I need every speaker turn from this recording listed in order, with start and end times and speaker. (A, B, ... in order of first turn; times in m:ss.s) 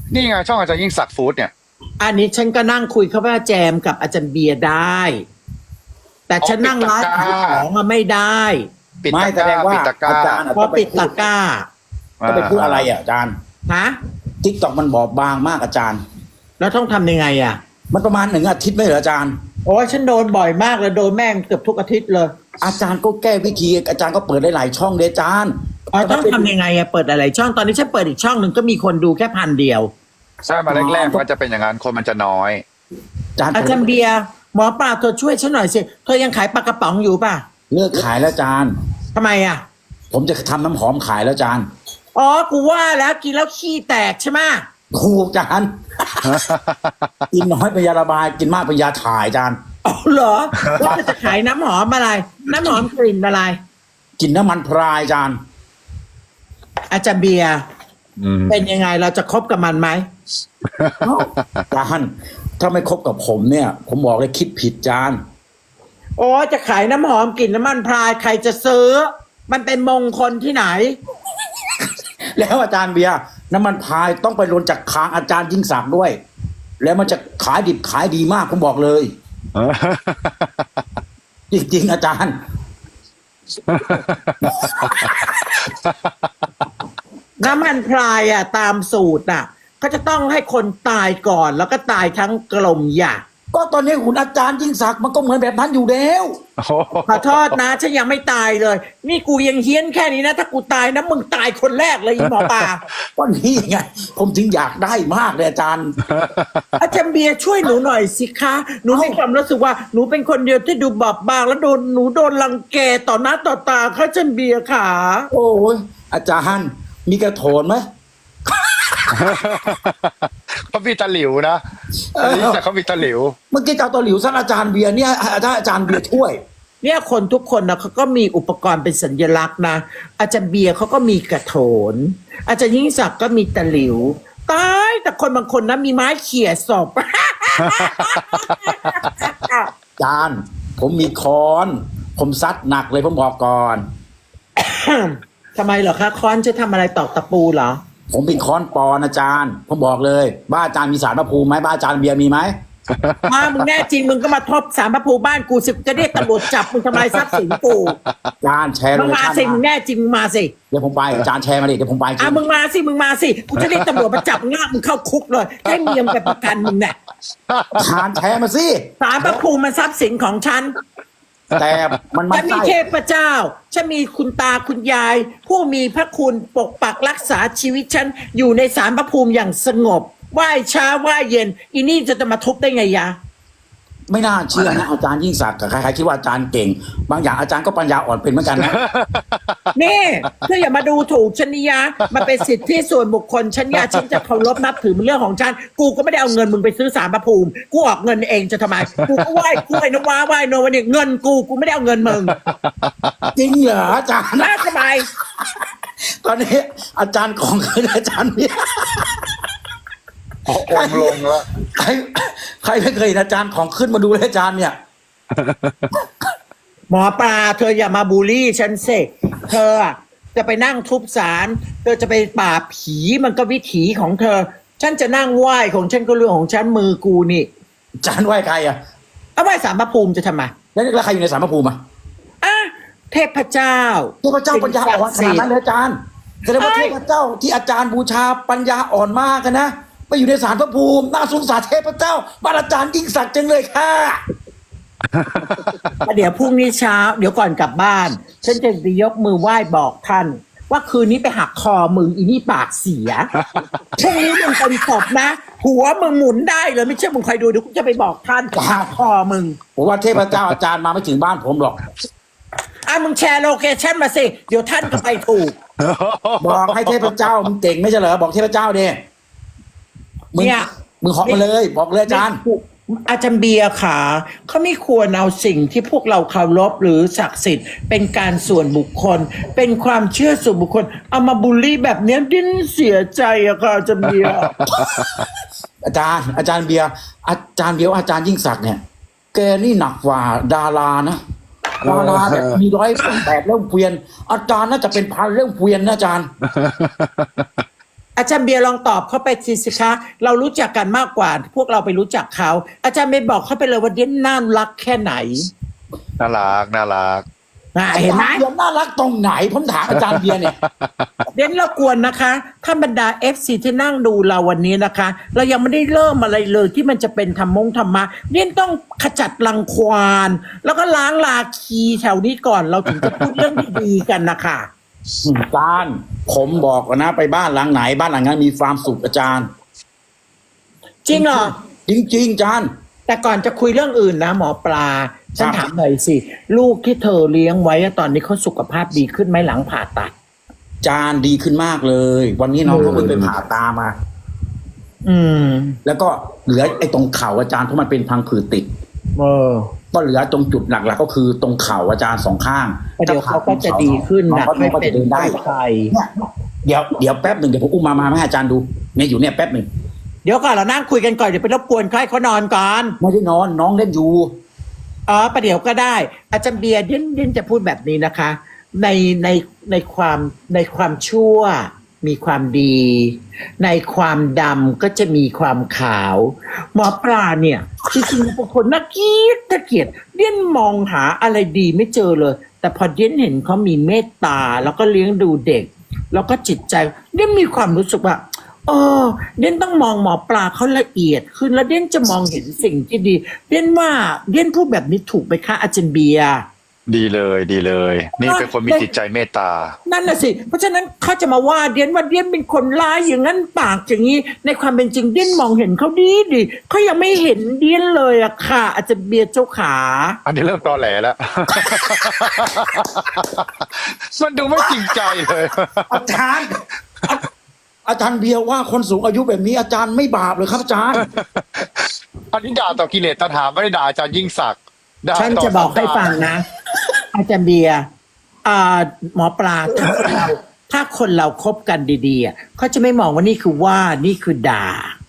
0:00.1-0:01.5 A
0:02.0-0:05.2 B
0:06.3-0:08.7 B
0:06.4-0:07.6 A
0:09.0-0:10.4 A
0:09.1-0:11.2 C
0:10.5-0:11.7 B
0:12.2-0:12.9 A
0:12.2-0:13.3 C
0:13.7-0:14.0 B
0:14.4-0:16.0 C
0:16.6-0:17.6 B
0:17.9-0:19.4 C
0:19.6-0:22.3 B
0:22.6-0:26.5 C
0:25.9-0:29.9 B
0:30.5-0:32.6 A
0:30.6-0:31.2 C
0:33.4-0:33.8 C
0:33.5-0:37.4 B
0:37.7-0:38.7 C
0:39.1-0:39.6 B
0:40.1-0:41.7 C
0:42.1-0:44.7 B
0:44.9-0:46.4 C
0:46.2-0:47.1 A
0:47.3-0:49.6 C
0:49.8-0:53.6 B
0:50.8-0:51.0 C
0:54.2-0:55.4 C
0:56.9-0:57.6 B
0:58.2-0:58.6 A
0:58.5-1:00.0 B
1:00.7-1:01.6 A
1:01.0-1:05.2 C
1:06.2-1:11.0 B
1:12.4-1:16.1 C
1:16.8-1:19.1 C
1:19.5-1:20.8 A
1:21.5-1:22.4 C
1:23.7-1:26.3 A
1:24.4-1:25.4 C
1:27.4-1:33.2 B
1:33.5-1:36.4 C
1:36.6-1:37.6 A
1:37.1-1:42.8 B
1:42.3-1:42.7 A
1:43.2-1:45.9 C
1:46.0-1:46.8 A
1:46.8-1:55.3 B
1:48.9-1:49.2 C
1:55.3-1:57.8 C
1:59.1-2:01.6 A
2:02.1-2:02.6 C
2:02.2-2:03.4 A
2:03.5-2:06.4 C
2:06.8-2:19.7 B
2:17.6-2:18.6 A
2:20.0-2:23.8 C
2:24.6-2:27.8 B
2:28.1-2:32.5 C
2:32.9-2:33.7 A
2:33.2-2:38.0 B
2:36.1-2:37.6 A
2:38.4-2:39.6 C
2:38.9-2:40.5 B
2:40.7-2:42.4 C
2:42.2-2:47.0 B
2:43.6-2:44.0 A
2:45.7-2:46.4 A
2:47.5-2:48.2 A
2:47.7-2:49.4 C
2:49.0-2:50.7 B
2:51.5-2:52.0 A
2:51.5-2:52.8 C
2:52.3-3:03.2 B
3:04.1-3:08.8 C
3:08.6-3:09.6 A
3:09.7-3:22.4 B
3:13.8-3:14.0 A
3:22.4-3:23.3 A
3:23.3-3:24.6 C
3:24.4-3:25.1 B
3:26.2-3:29.3 C
3:30.4-3:31.5 A
3:30.6-3:34.8 C
3:35.3-3:35.9 A
3:36.9-3:47.5 B
3:48.0-3:48.8 C
3:49.4-3:50.5 B
3:50.7-3:51.8 C
3:52.4-3:55.5 B
3:54.2-4:04.2 C
3:56.6-3:56.9 B
4:05.1-4:05.9 A
4:06.0-4:13.3 B
4:13.4-4:13.8 A
4:14.0-4:19.6 B
4:14.0-4:14.7 C
4:18.5-4:18.9 C
4:19.8-4:21.8 C
4:22.9-4:25.6 B
4:25.8-4:27.3 A
4:26.4-4:29.0 C
4:30.3-4:32.4 C
4:30.4-4:30.7 B
4:32.1-4:44.5 B
4:44.1-4:45.3 A
4:45.8-4:48.8 C
4:49.3-4:51.2 C
4:51.8-4:56.3 C
4:51.8-4:52.6 A
4:56.4-4:57.5 A
4:58.2-5:05.5 B
5:06.2-5:07.2 A
5:07.7-5:08.4 B
5:07.9-5:10.5 C
5:09.9-5:11.3 A
5:11.3-5:24.7 B
5:22.9-5:23.2 A
5:25.2-5:29.5 C
5:31.0-5:31.5 B
5:31.1-5:32.7 C
5:33.1-5:40.1 B
5:35.4-5:35.6 C
5:40.8-5:43.9 C
5:42.6-5:43.1 B
5:42.8-5:43.3 A
5:45.0-5:45.8 B
5:45.8-5:48.7 C
5:49.2-5:49.7 B
5:49.9-5:55.4 C
5:53.0-5:55.9 B
5:55.9-5:59.6 C
6:00.2-6:03.0 B
6:03.0-6:04.3 C
6:05.1-6:36.4 B
6:36.9-6:39.8 A
6:38.2-6:38.9 B
6:39.8-6:50.2 B
6:50.2-6:56.0 A
6:51.5-6:52.6 C
6:54.7-6:55.0 C
6:55.9-6:57.2 C
6:57.8-7:01.1 C
7:01.0-7:06.3 A
7:05.1-7:06.5 B
7:07.1-7:07.8 B
7:08.4-7:14.9 B
7:09.9-7:10.2 C